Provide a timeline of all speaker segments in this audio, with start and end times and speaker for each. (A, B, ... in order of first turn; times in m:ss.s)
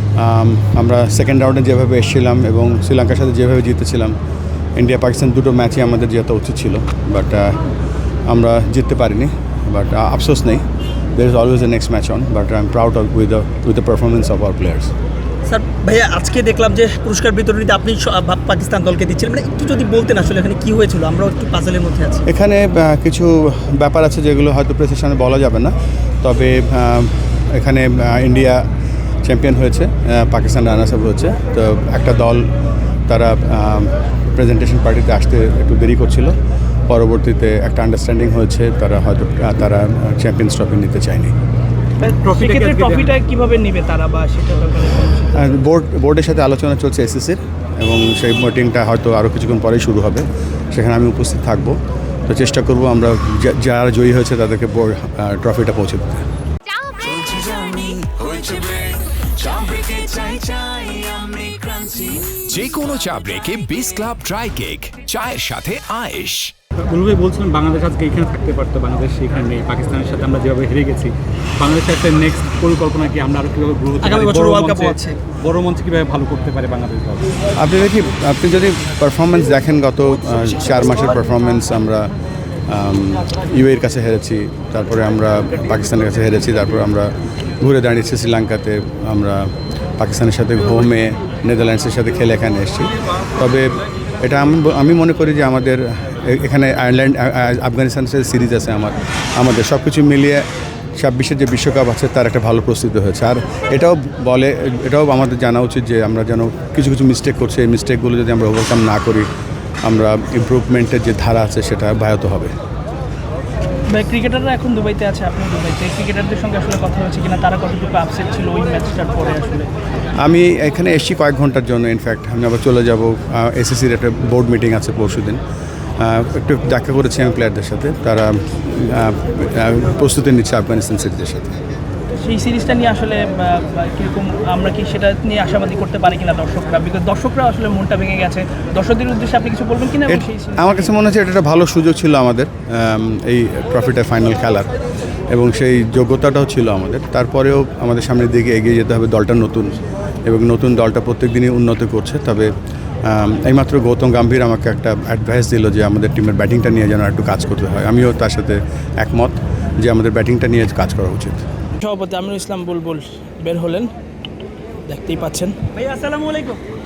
0:00.2-0:04.2 A
0:04.8-0:07.6 A
0:08.3-0:14.9 A
0:15.4-0:22.2 B
0:22.2-0:28.6 A
0:29.2-0:32.5 A
0:33.1-0:36.4 A
0:36.9-0:41.3 A
0:42.1-0:43.2 C
0:42.3-0:45.5 D
0:45.4-0:51.8 A
0:52.3-0:56.2 A
0:57.3-0:58.9 E
0:59.6-1:00.4 E
1:01.8-1:06.5 E
1:06.9-1:17.3 C
1:14.0-1:15.2 B
1:17.6-1:22.1 A
1:22.7-1:40.4 A
1:41.0-1:49.3 A
1:49.8-1:52.5 A
1:53.9-1:59.7 D
2:00.2-2:05.4 A
2:06.0-2:11.5 A
2:12.2-2:20.9 D
2:20.0-2:24.7 A
2:25.3-2:32.5 A
2:33.0-2:41.4 A
2:41.8-2:43.9 D
2:44.8-2:46.6 D